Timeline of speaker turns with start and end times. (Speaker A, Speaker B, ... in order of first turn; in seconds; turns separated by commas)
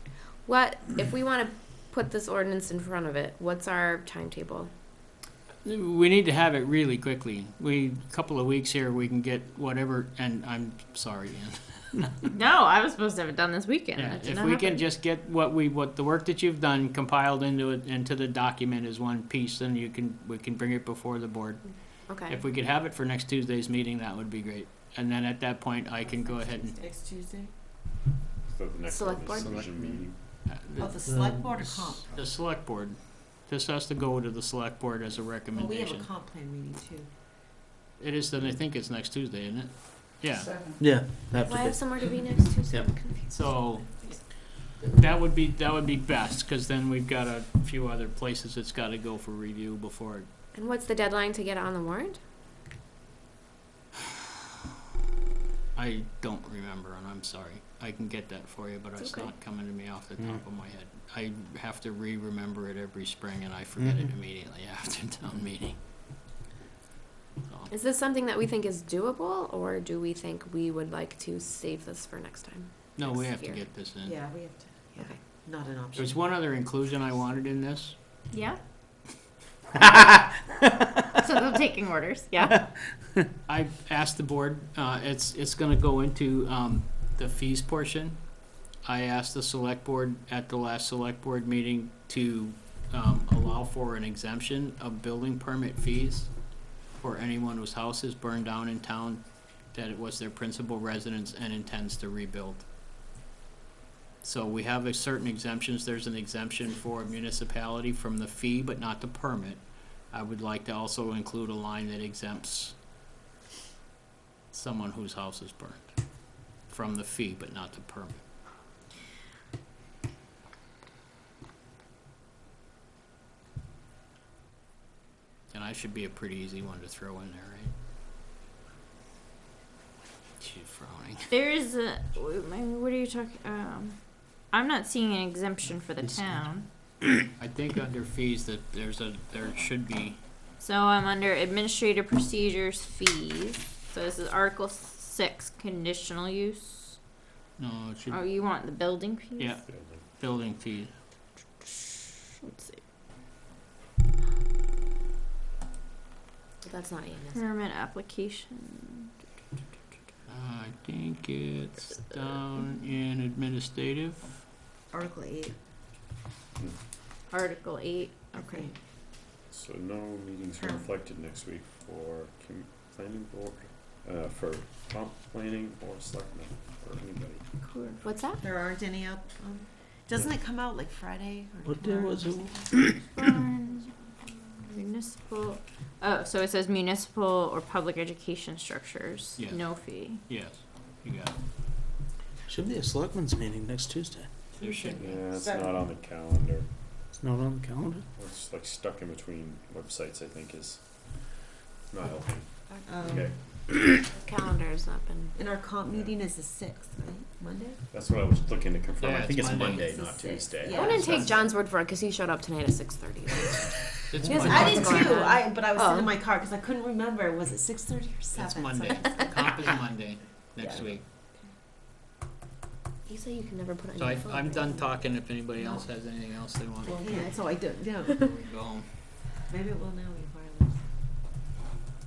Speaker A: 0.4-4.7, Speaker B: 5.6-11.8, Speaker C: 12.3-14.8, Speaker B: 13.9-26.8, Speaker A: 22.1-22.4, Speaker D: 26.2-27.5, Speaker E: 28.5-30.2, Speaker A: 28.9-29.6, Speaker B: 30.5-31.0, Speaker D: 30.8-32.1, Speaker F: 31.1-31.5, Speaker B: 32.1-36.1, Speaker D: 35.5-37.1, Speaker B: 38.0-40.5, Speaker F: 40.8-41.8, Speaker A: 41.4-44.2, Speaker B: 42.7-43.9, Speaker B: 44.8-50.3, Speaker A: 50.5-52.2, Speaker B: 55.8-65.8, Speaker A: 59.0-59.3, Speaker F: 63.8-64.1, Speaker A: 67.7-73.6, Speaker B: 73.0-74.2, Speaker D: 74.0-76.3, Speaker B: 76.0-78.2, Speaker C: 78.3-78.6, Speaker F: 79.8-80.8, Speaker C: 81.2-82.6, Speaker F: 82.5-83.2, Speaker B: 83.5-88.3, Speaker B: 88.8-96.3, Speaker B: 97.0-102.7, Speaker B: 104.2-112.8, Speaker B: 114.5-115.9, Speaker B: 116.7-118.2, Speaker B: 125.5-127.7, Speaker B: 130.4-131.3, Speaker C: 131.3-136.7, Speaker B: 137.4-140.2, Speaker C: 140.6-147.0, Speaker B: 147.6-148.2, Speaker C: 148.1-149.6, Speaker B: 149.4-150.9, Speaker E: 149.6-150.1, Speaker C: 151.7-152.8, Speaker A: 156.6-157.3, Speaker C: 157.3-159.1, Speaker B: 160.3-164.4, Speaker D: 164.9-165.6, Speaker C: 167.3-168.7, Speaker D: 168.3-168.8, Speaker E: 169.5-177.4, Speaker D: 170.6-170.9, Speaker C: 177.6-178.0, Speaker A: 178.0-178.4, Speaker D: 178.4-182.7, Speaker F: 181.7-183.0, Speaker C: 183.2-183.9, Speaker C: 184.5-190.2, Speaker B: 189.4-191.4, Speaker F: 192.5-194.3, Speaker D: 194.6-195.8, Speaker B: 194.6-195.0, Speaker E: 194.9-196.7, Speaker F: 197.2-198.0, Speaker E: 198.2-201.3, Speaker E: 201.9-203.7, Speaker D: 202.7-203.4, Speaker A: 204.1-205.4, Speaker D: 205.3-207.8, Speaker E: 205.9-206.1, Speaker E: 207.9-211.2, Speaker B: 209.0-209.9, Speaker D: 209.6-211.5, Speaker A: 210.7-216.1, Speaker B: 214.1-215.0, Speaker D: 214.2-219.7, Speaker B: 218.4-221.0, Speaker D: 220.6-221.5, Speaker A: 223.1-225.8, Speaker B: 224.0-227.1, Speaker D: 226.8-228.2, Speaker B: 228.1-228.9, Speaker D: 229.5-230.9